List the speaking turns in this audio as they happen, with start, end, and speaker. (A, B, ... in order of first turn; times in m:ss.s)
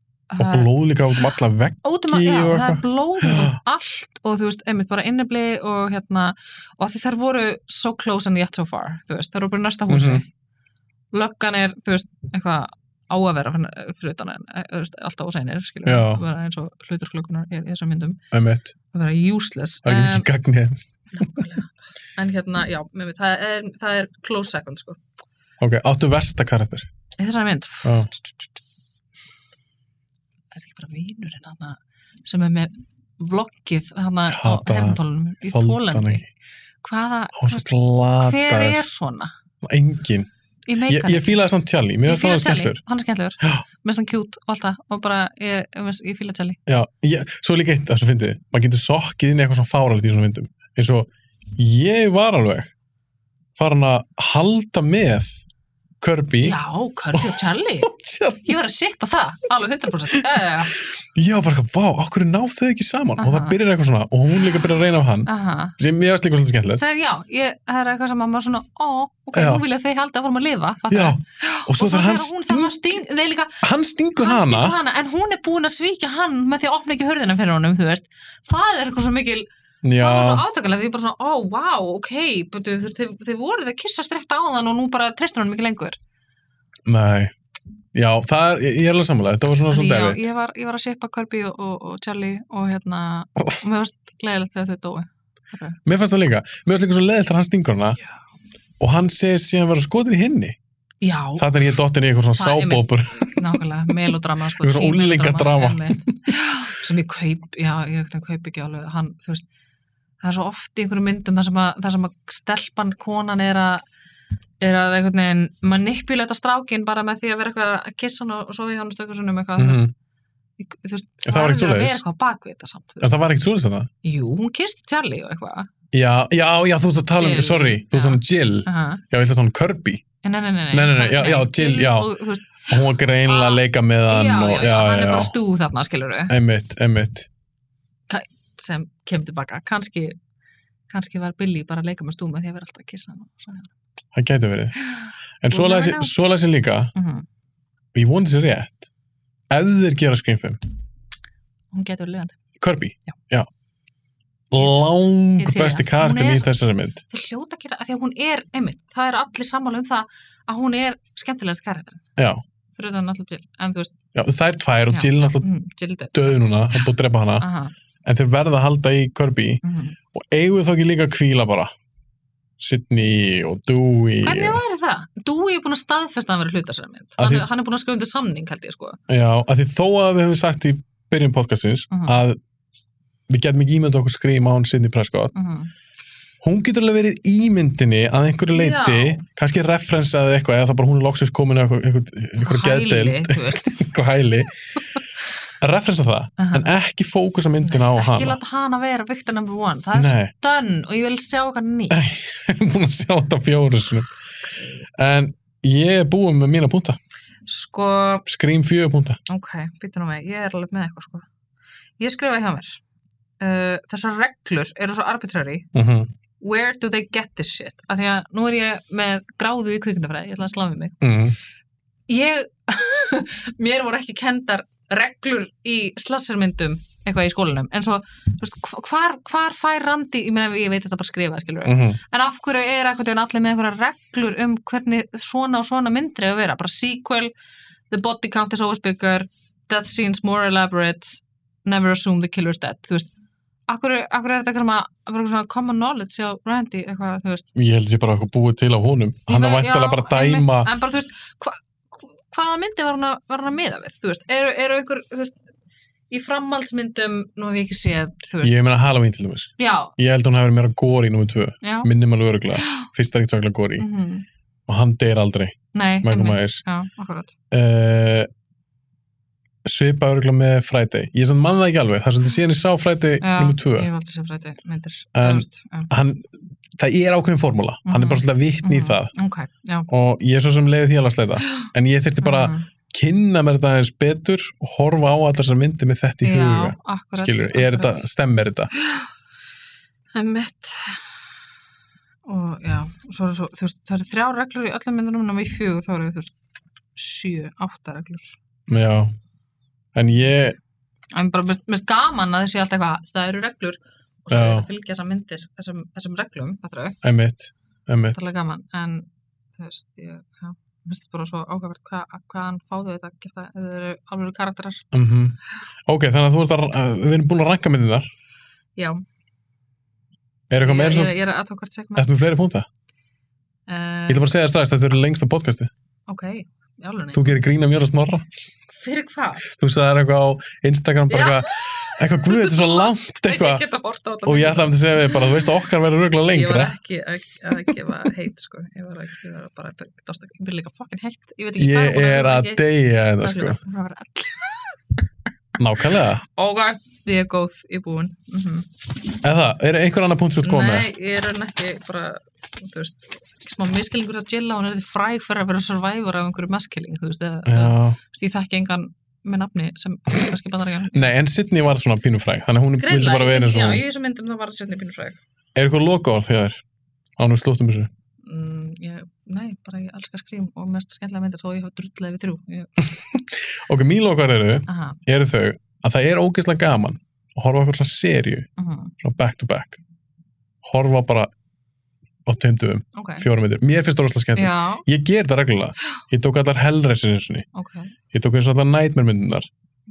0:00.3-0:00.7 A
0:00.4-0:03.6 B
0:01.8-0:10.3 A
0:09.9-0:10.2 B
0:11.1-0:18.2 A
0:15.8-0:16.2 B
0:18.3-0:18.7 B
0:18.9-0:20.3 A
0:19.8-0:21.4 B
0:21.1-0:25.0 A
0:25.6-0:26.9 B
0:27.2-0:28.5 A
0:30.5-0:36.2 A
0:34.3-0:36.2 B
0:36.8-0:39.3 A
0:37.3-0:38.8 B
0:39.6-0:40.3 B
0:40.7-0:41.5 A
0:40.9-0:42.8 B
0:42.0-0:46.6 A
0:46.7-0:52.7 B
0:53.5-0:55.3 B
0:56.0-0:56.6 B
0:56.4-0:57.9 A
0:57.1-0:58.5 B
0:58.4-1:00.8 A
1:01.0-1:06.8 B
1:03.2-1:03.6 A
1:05.2-1:05.8 A
1:06.8-1:13.6 A
1:09.3-1:09.6 B
1:10.9-1:13.0 B
1:13.6-1:14.8 B
1:14.2-1:26.0 A
1:19.8-1:20.4 B
1:26.8-1:27.3 B
1:27.9-1:30.3 B
1:29.7-1:35.8 A
1:35.8-1:38.0 B
1:38.8-1:40.6 B
1:41.0-1:41.5 A
1:41.4-1:43.4 B
1:42.4-1:49.4 A
1:44.6-1:46.2 B
1:50.2-1:53.8 A
1:54.6-1:59.9 A
1:59.6-1:59.9 B
2:00.6-2:03.2 A
2:01.2-2:02.0 B
2:03.0-2:03.9 B
2:04.0-2:05.7 A
2:05.9-2:10.0 B
2:07.2-2:09.0 A
2:10.2-2:16.3 A
2:10.7-2:12.1 B
2:12.7-2:15.3 B
2:16.3-2:17.3 B
2:18.1-2:20.2 A
2:20.9-2:23.7 A
2:24.1-2:24.7 B
2:24.8-2:26.1 A
2:25.4-2:26.9 B
2:26.9-2:27.2 A
2:27.9-2:28.9 B
2:29.5-2:30.6 B
2:31.7-2:32.3 A
2:32.6-2:33.5 B
2:34.5-2:37.0 B
2:35.4-2:36.5 A
2:37.1-2:42.0 A
2:42.2-2:42.4 B
2:42.8-2:43.9 A
2:44.1-2:45.4 B
2:44.9-2:46.4 A
2:46.1-2:47.4 B
2:47.4-2:47.7 A
2:48.0-2:49.6 B
2:49.6-2:50.0 A
2:50.1-2:51.7 B
2:52.6-2:54.6 B
2:54.2-2:59.0 A
2:57.2-2:57.4 B
2:59.1-3:02.4 B
3:01.9-3:02.2 A
3:03.3-3:05.3 B
3:05.3-3:05.7 A
3:06.4-3:14.5 B
3:08.5-3:09.2 A
3:12.4-3:13.9 A
3:15.6-3:18.4 B
3:16.4-3:16.7 A
3:17.6-3:22.0 A
3:19.9-3:20.3 B
3:21.9-3:24.1 B
3:25.0-3:27.0 B
3:27.4-3:28.2 A
3:28.2-3:29.2 B
3:29.3-3:31.3 A
3:32.0-3:32.8 A
3:33.4-3:35.7 A
3:35.7-3:36.1 B
3:36.4-3:41.1 A
3:41.0-3:41.4 B
3:42.1-3:57.3 A
3:51.6-3:52.0 B
3:57.9-4:03.1 A
4:03.7-4:07.5 A
4:07.5-4:10.7 B
4:09.3-4:15.3 A
4:16.1-4:18.6 A
4:18.4-4:23.8 B
4:19.6-4:19.9 A
4:21.6-4:21.9 A
4:22.6-4:22.9 A
4:23.8-4:24.2 A
4:24.7-4:26.6 B
4:25.7-4:27.3 A
4:27.5-4:28.3 B
4:29.6-4:33.9 B
4:33.2-4:35.9 A
4:35.1-4:39.1 B
4:37.8-4:39.9 A
4:39.9-4:48.7 B
4:41.5-4:42.7 A
4:46.2-4:48.0 A
4:48.8-4:49.1 A
4:50.1-4:51.2 A
4:52.2-4:56.3 A
4:57.0-4:58.4 A
4:58.7-4:59.1 B
4:59.9-5:00.6 B
5:01.1-5:07.0 A
5:04.3-5:04.6 B
5:07.0-5:08.3 B
5:08.1-5:14.9 A
5:14.9-5:18.1 B
5:18.8-5:19.0 A
5:20.5-5:21.2 B
5:20.6-5:22.1 A
5:22.0-5:22.6 B
5:23.7-5:24.3 A
5:24.1-5:25.7 B
5:26.1-5:27.4 A
5:27.1-5:28.3 B
5:28.7-5:29.5 A
5:29.4-5:33.6 B
5:31.1-5:35.5 A
5:34.2-5:36.8 B
5:36.3-5:42.6 A
5:41.6-5:43.6 B
5:43.2-5:45.0 A
5:45.6-5:46.2 B
5:46.2-5:48.7 A
5:49.2-5:50.9 B
5:50.4-6:01.1 A
5:57.4-5:58.0 B
6:00.9-6:03.8 B
6:02.8-6:05.2 A
6:05.5-6:06.6 B
6:07.2-6:07.9 B
6:08.2-6:12.9 A
6:12.9-6:18.5 B
6:14.7-6:15.0 A
6:18.6-6:18.9 A
6:19.0-6:19.8 B
6:20.6-6:21.3 B
6:22.2-6:27.4 B
6:22.9-6:23.2 A
6:24.4-6:24.8 A
6:27.5-6:27.9 A
6:28.1-6:29.5 B